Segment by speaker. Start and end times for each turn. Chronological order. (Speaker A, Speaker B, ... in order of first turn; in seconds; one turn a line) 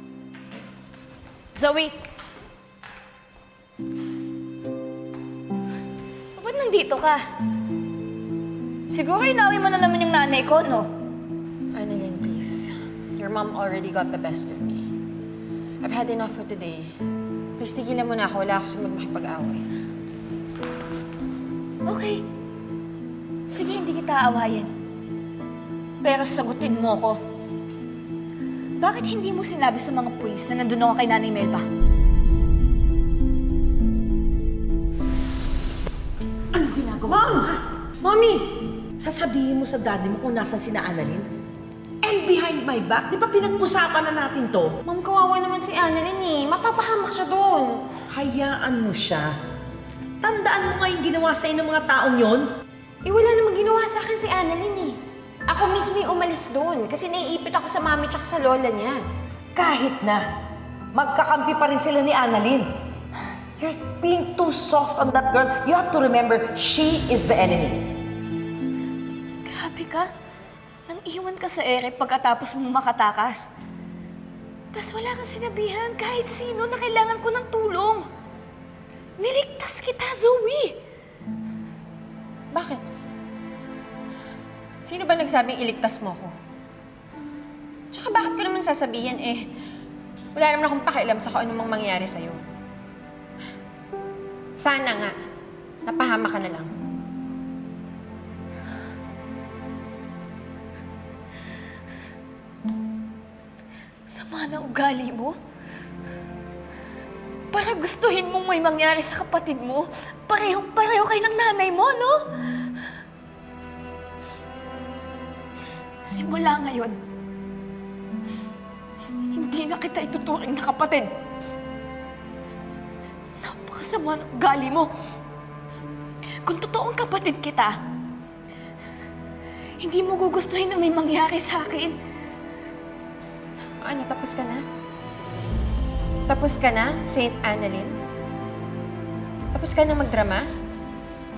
Speaker A: 1.6-2.0
Speaker A: 6.4-7.2
Speaker A: 8.9-10.9
Speaker B: 11.7-14.9
Speaker B: 15.8-16.9
Speaker B: 17.6-19.7
Speaker A: 21.8-22.2
Speaker A: 23.5-24.7
Speaker A: 26.0-27.2
Speaker A: 28.8-31.7
Speaker C: 36.5-37.6
Speaker B: 37.0-38.5
Speaker C: 39.0-41.3
Speaker C: 42.0-44.8
Speaker B: 44.9-47.8
Speaker C: 48.1-49.3
Speaker C: 50.2-52.5
Speaker B: 53.0-59.0
Speaker C: 59.5-60.3
Speaker C: 60.9-62.7
Speaker C: 63.6-67.9
Speaker A: 69.5-70.1
Speaker A: 70.9-73.5
Speaker A: 74.7-78.0
Speaker A: 79.2-80.8
Speaker B: 82.5-82.8
Speaker B: 84.8-86.3
Speaker B: 87.9-89.5
Speaker B: 90.3-92.4
Speaker B: 94.6-95.1
Speaker B: 95.9-96.7
Speaker A: 104.1-105.3
Speaker A: 107.5-112.6
Speaker A: 116.0-117.0
Speaker A: 119.2-121.1
Speaker A: 123.4-124.9
Speaker A: 126.5-127.8
Speaker A: 129.8-132.0
Speaker B: 133.8-134.6
Speaker B: 136.3-138.0
Speaker B: 139.5-140.5